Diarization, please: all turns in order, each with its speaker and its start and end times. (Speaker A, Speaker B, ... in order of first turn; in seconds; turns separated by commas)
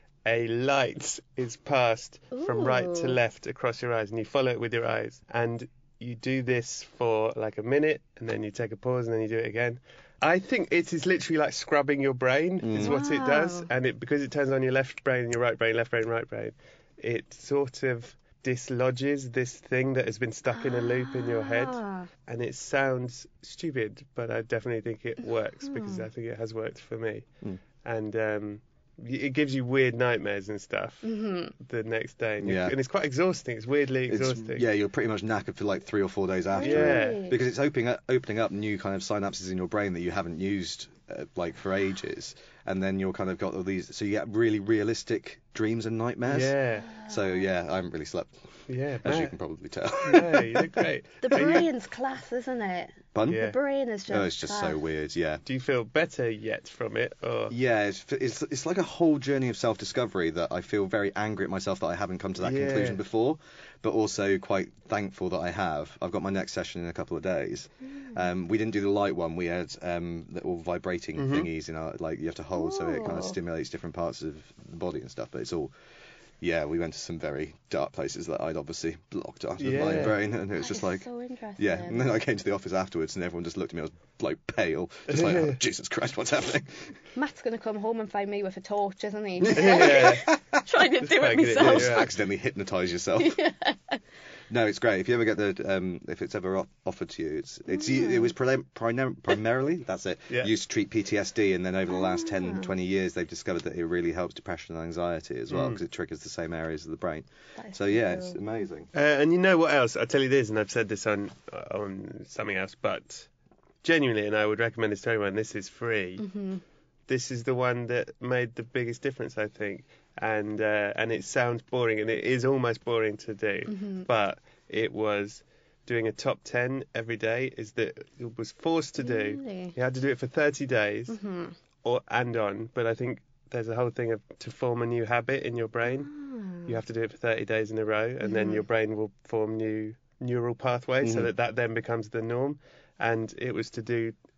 Speaker A: 0.2-27.2, Speaker B: 2.3-3.2, Speaker C: 12.6-13.0, Speaker B: 12.8-13.7, Speaker B: 20.7-22.1, Speaker A: 27.8-34.6, Speaker B: 31.0-31.5, Speaker C: 32.4-32.8, Speaker C: 34.1-48.4, Speaker A: 36.6-37.2, Speaker B: 36.6-37.3, Speaker A: 46.3-47.0, Speaker A: 48.7-49.4, Speaker C: 49.0-50.8, Speaker A: 50.0-51.7, Speaker B: 51.2-54.8, Speaker C: 53.1-53.5, Speaker A: 53.3-53.5, Speaker C: 54.1-55.4, Speaker A: 55.5-57.5, Speaker C: 57.5-75.7, Speaker A: 62.4-63.0, Speaker A: 71.2-71.5, Speaker B: 72.6-73.3, Speaker C: 76.4-81.0, Speaker A: 79.6-80.2, Speaker B: 80.6-82.0, Speaker C: 81.6-86.9, Speaker A: 85.1-85.6, Speaker B: 87.2-92.0, Speaker C: 89.5-90.4, Speaker A: 89.5-90.3, Speaker A: 91.0-92.1, Speaker C: 91.4-93.4, Speaker B: 93.2-94.0, Speaker C: 94.5-108.9, Speaker B: 97.8-98.3, Speaker B: 102.2-102.7, Speaker A: 105.5-105.8, Speaker B: 107.6-108.4, Speaker A: 108.9-113.3, Speaker A: 113.8-116.2, Speaker B: 116.2-116.6, Speaker A: 117.1-131.2, Speaker B: 123.7-124.1, Speaker B: 129.0-129.7, Speaker B: 131.1-131.5, Speaker A: 131.8-144.2, Speaker B: 136.0-136.7, Speaker B: 138.2-138.6, Speaker C: 141.0-141.3